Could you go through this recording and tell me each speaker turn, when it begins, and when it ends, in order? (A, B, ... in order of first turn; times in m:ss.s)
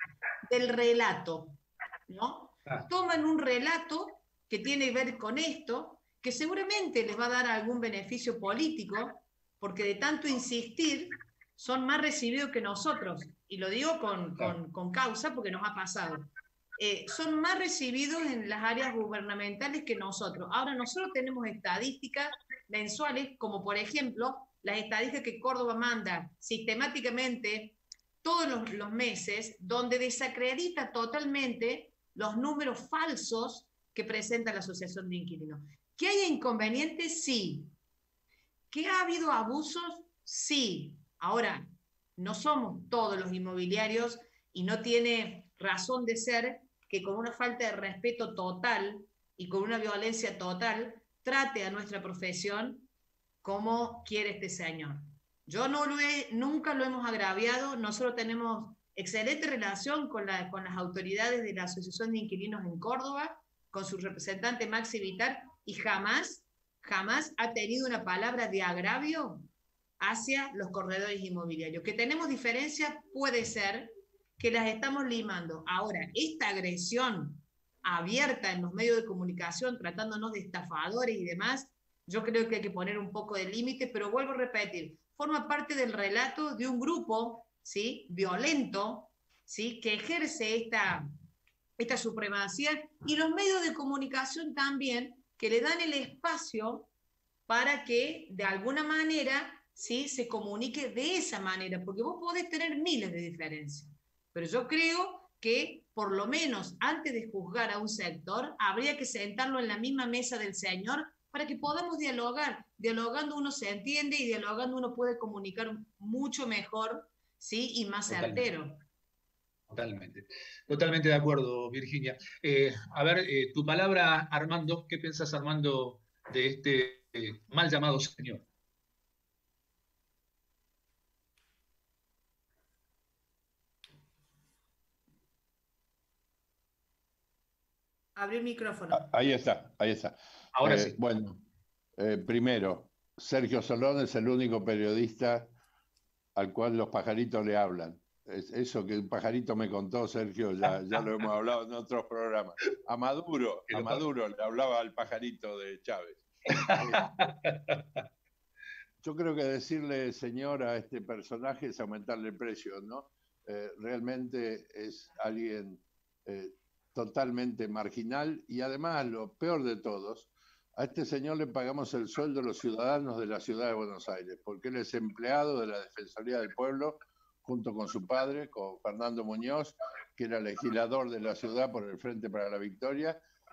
0:00.5-0:37.7 A
0:38.7-0:41.6 A
0:42.2-0:52.9 A
0:53.4-1:09.5 A
1:10.0-1:31.1 A
1:31.8-1:36.9 A
1:37.5-1:58.8 A
1:58.1-1:58.5 B
1:59.7-2:08.4 B
2:18.2-2:19.0 A
2:18.9-2:21.4 C
2:20.5-2:21.0 B
2:22.0-2:25.5 C
2:26.4-2:37.0 C
2:33.7-2:34.0 B
2:36.5-2:38.0 B
2:39.0-3:03.2 C